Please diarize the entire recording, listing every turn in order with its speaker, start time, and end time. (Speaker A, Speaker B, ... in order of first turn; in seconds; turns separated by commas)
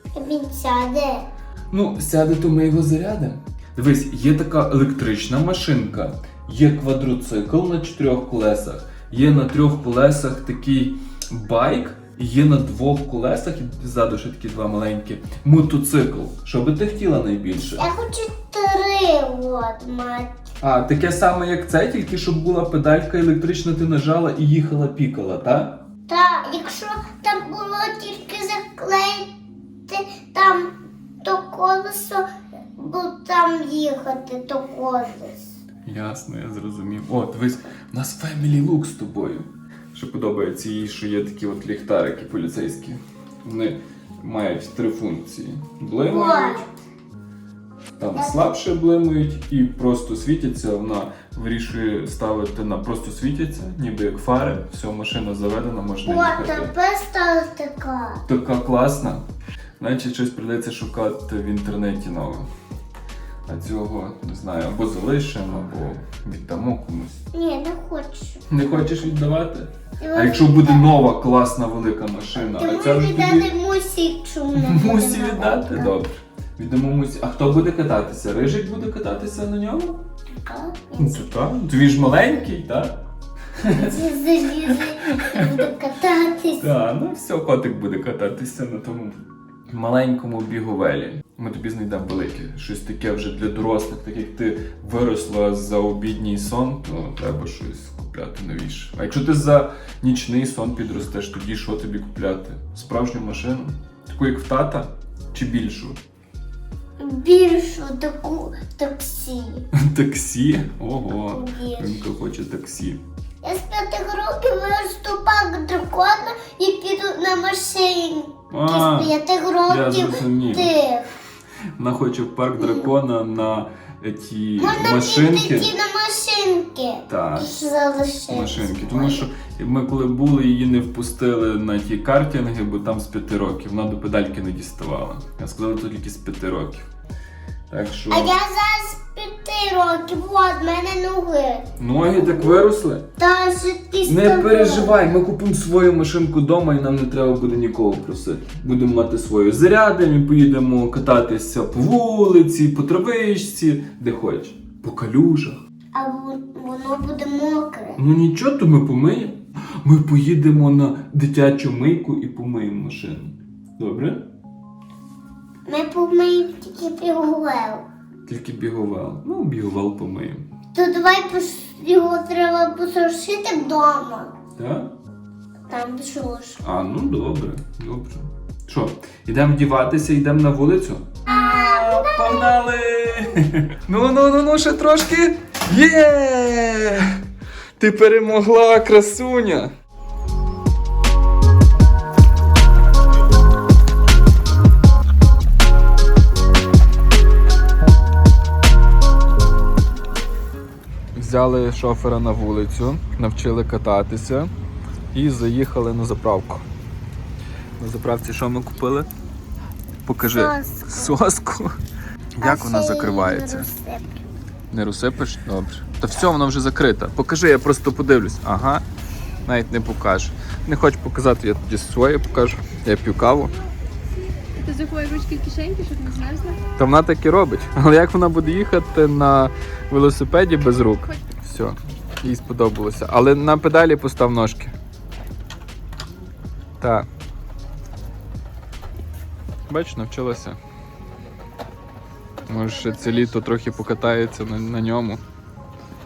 Speaker A: 0.1-1.3, Speaker B: 1.7-17.9, Speaker A: 17.8-20.4, Speaker B: 20.6-25.8, Speaker A: 26.1-29.3, Speaker A: 29.9-30.7, Speaker A: 31.2-32.2, Speaker A: 32.8-35.5, Speaker B: 35.9-46.6, Speaker A: 46.1-46.7, Speaker B: 48.0-56.7, Speaker A: 48.1-48.4, Speaker A: 56.0-58.2, Speaker B: 58.3-59.2, Speaker B: 59.8-62.5, Speaker B: 63.5-67.2, Speaker A: 67.3-68.4, Speaker B: 68.5-73.5, Speaker A: 70.0-70.9, Speaker A: 72.5-75.9, Speaker B: 74.5-80.0, Speaker A: 80.3-81.3, Speaker B: 81.0-83.0, Speaker B: 83.6-84.0, Speaker A: 83.7-86.7, Speaker B: 84.7-85.6, Speaker B: 86.6-106.0, Speaker A: 107.0-109.7, Speaker B: 109.7-113.0, Speaker A: 111.3-112.0, Speaker A: 113.4-121.1, Speaker B: 118.5-119.1, Speaker B: 119.7-120.7, Speaker B: 121.8-125.7, Speaker A: 122.6-122.9, Speaker A: 124.6-129.3, Speaker B: 127.1-127.6, Speaker B: 128.3-136.9, Speaker B: 137.7-138.3, Speaker A: 138.1-141.6, Speaker B: 141.8-143.1, Speaker A: 142.2-142.6, Speaker A: 143.2-145.0, Speaker B: 144.0-155.6, Speaker A: 155.9-158.0, Speaker B: 158.0-164.2, Speaker A: 165.7-167.8, Speaker B: 168.2-170.4, Speaker A: 170.7-174.3, Speaker B: 174.6-174.9, Speaker A: 175.7-176.6, Speaker B: 176.6-187.2, Speaker A: 181.2-182.5, Speaker B: 187.8-189.7, Speaker B: 201.1-204.5, Speaker B: 205.1-206.7, Speaker B: 207.8-209.1, Speaker B: 210.0-211.8, Speaker A: 210.3-211.2, Speaker B: 212.4-213.7, Speaker A: 212.4-214.2, Speaker B: 214.7-218.8, Speaker B: 219.4-223.6, Speaker C: 224.6-226.6, Speaker B: 226.8-234.7, Speaker B: 236.8-237.1, Speaker B: 239.7-240.6, Speaker B: 242.5-245.2